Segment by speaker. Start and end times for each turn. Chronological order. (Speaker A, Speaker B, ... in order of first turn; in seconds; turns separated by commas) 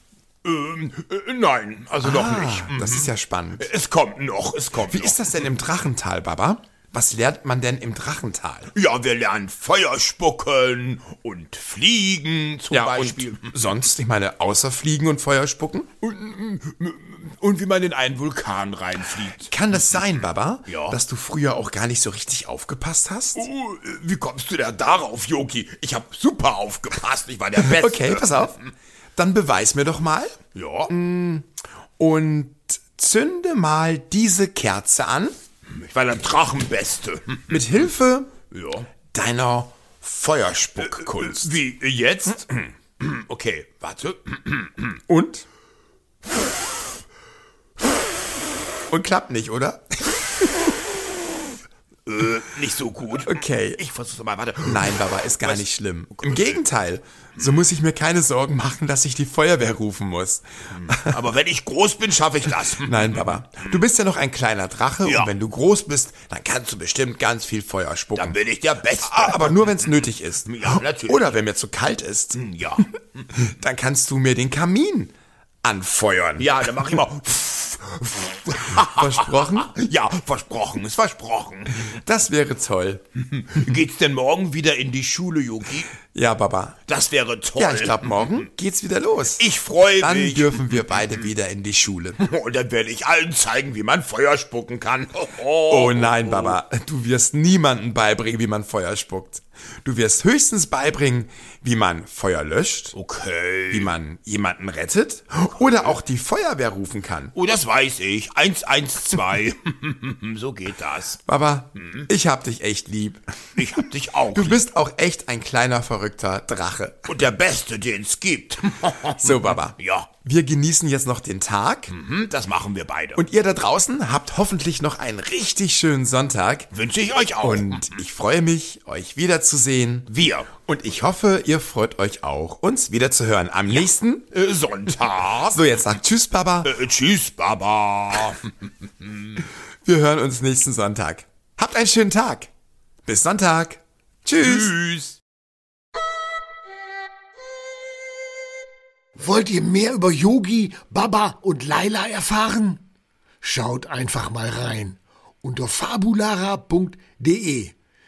Speaker A: 0.4-5.2, Speaker B: 2.0-3.7, Speaker B: 4.8-8.7, Speaker A: 8.7-13.7, Speaker B: 12.7-15.9, Speaker A: 16.0-20.1, Speaker B: 19.4-23.5, Speaker A: 20.7-21.0, Speaker A: 23.4-28.6, Speaker B: 27.6-28.6, Speaker B: 29.2-35.3, Speaker A: 30.6-30.9, Speaker A: 35.7-37.9, Speaker B: 37.5-38.4, Speaker A: 38.5-38.9, Speaker B: 39.1-41.5, Speaker A: 40.8-45.0, Speaker B: 45.1-45.5, Speaker B: 48.9-50.6, Speaker A: 52.1-55.6, Speaker B: 53.2-53.8, Speaker B: 54.6-61.2, Speaker A: 56.2-56.6, Speaker A: 60.7-63.8, Speaker B: 62.5-68.4, Speaker A: 65.0-65.3, Speaker A: 68.2-71.3, Speaker B: 69.0-77.0, Speaker A: 72.3-73.2, Speaker A: 76.4-82.0, Speaker B: 78.7-79.7, Speaker B: 81.8-83.0, Speaker A: 83.3-85.9, Speaker B: 86.1-86.8, Speaker A: 86.9-88.5, Speaker B: 87.6-89.5, Speaker A: 89.4-91.3, Speaker B: 90.0-92.2, Speaker A: 92.2-96.6, Speaker B: 95.7-102.9, Speaker A: 102.9-103.9, Speaker B: 103.7-107.3, Speaker A: 105.6-106.0, Speaker A: 107.3-111.2, Speaker B: 111.3-113.7, Speaker A: 111.8-112.1, Speaker A: 113.6-114.6, Speaker B: 114.3-117.1, Speaker A: 117.1-120.1, Speaker B: 119.2-121.9, Speaker A: 121.9-123.2, Speaker B: 123.2-126.7, Speaker A: 126.7-128.0, Speaker B: 127.4-130.1, Speaker A: 130.1-130.5, Speaker B: 130.6-134.3, Speaker A: 133.7-135.6, Speaker B: 135.5-136.7, Speaker A: 136.6-138.4, Speaker B: 139.8-142.5, Speaker B: 143.0-144.8, Speaker A: 144.4-145.2, Speaker C: 149.2-152.8, Speaker C: 153.4-157.8